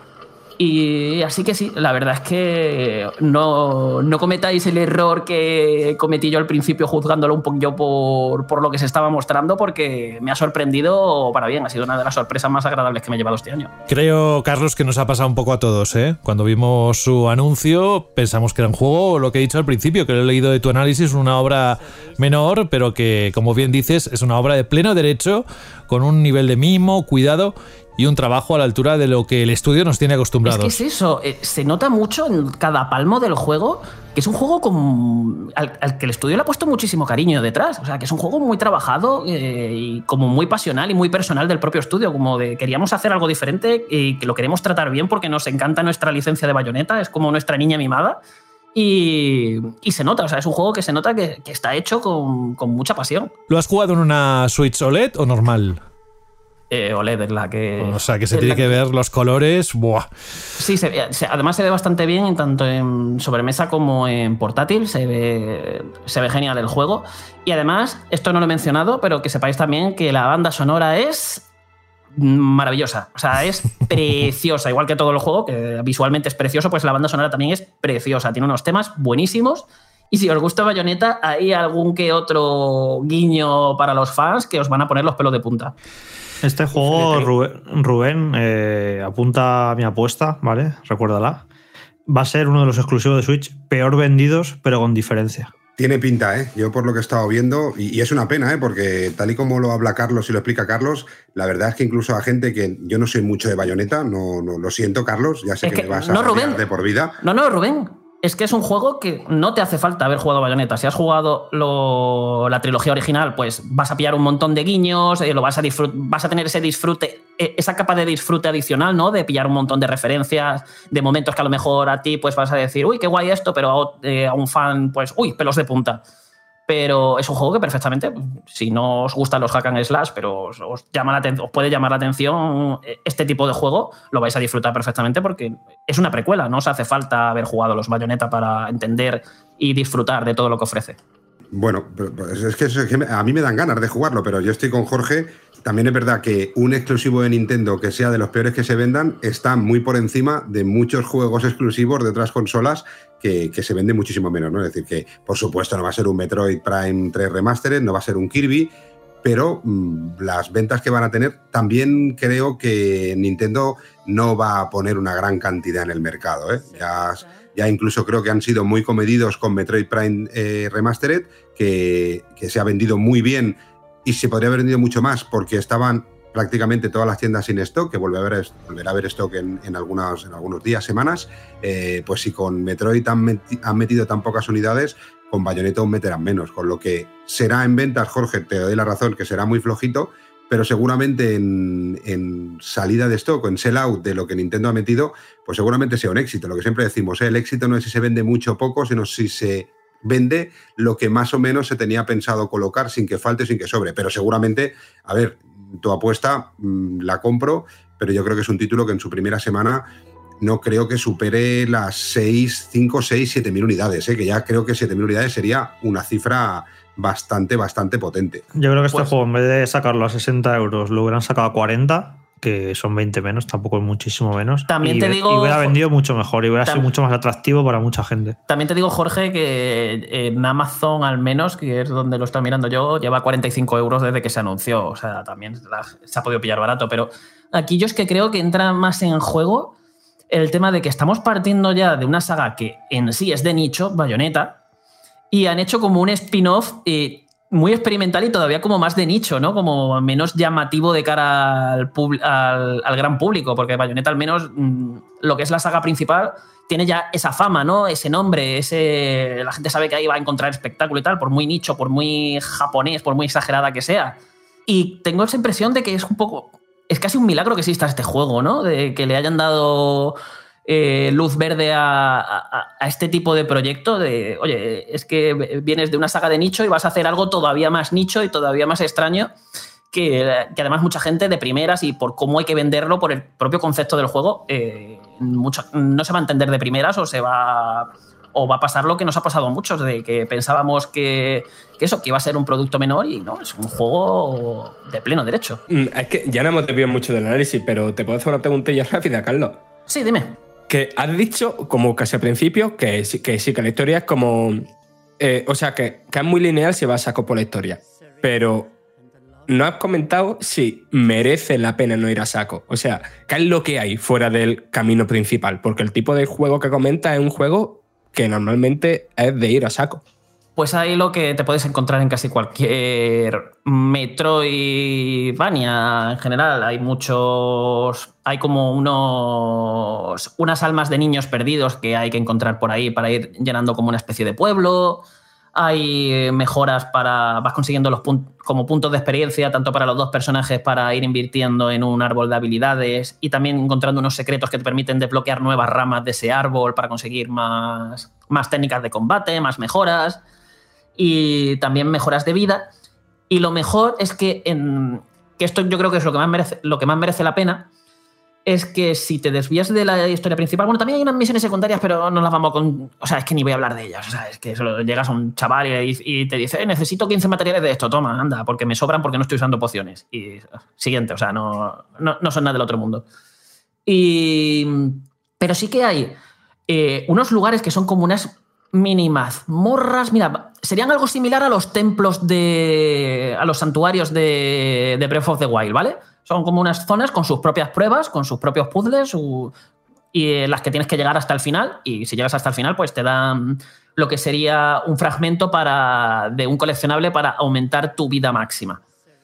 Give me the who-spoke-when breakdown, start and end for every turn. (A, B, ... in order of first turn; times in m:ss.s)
0:00.6-0:13.7 A
0:13.9-0:30.8 B
0:30.4-0:48.2 A
0:48.7-0:53.3 A
0:53.5-0:55.8 B
0:56.7-0:58.8 A
0:57.8-1:00.1 B
1:00.6-1:11.4 A
1:12.2-1:25.7 A
1:26.4-1:31.4 C
1:32.1-1:35.5 C
1:35.8-1:47.2 D
1:45.6-1:46.6 A
1:47.2-2:06.0 A
2:06.7-2:21.0 A
2:21.5-3:29.9 D
3:30.4-3:38.4 D
3:38.5-3:48.4 C
3:44.7-3:45.8 A
3:46.6-3:46.9 A
3:48.5-3:59.7 A
4:00.3-4:04.6 A
4:05.3-4:39.3 A
4:39.9-4:55.6 A
4:55.7-4:59.6 E
4:59.9-5:00.3 A
5:00.7-5:04.7 E
5:05.2-5:08.7 E
5:09.5-5:20.0 E
5:20.6-5:50.2 A
5:51.0-5:52.7 A
5:53.3-5:57.7 A
5:58.4-6:13.0 A
6:13.8-6:29.5 A
6:30.1-6:38.8 A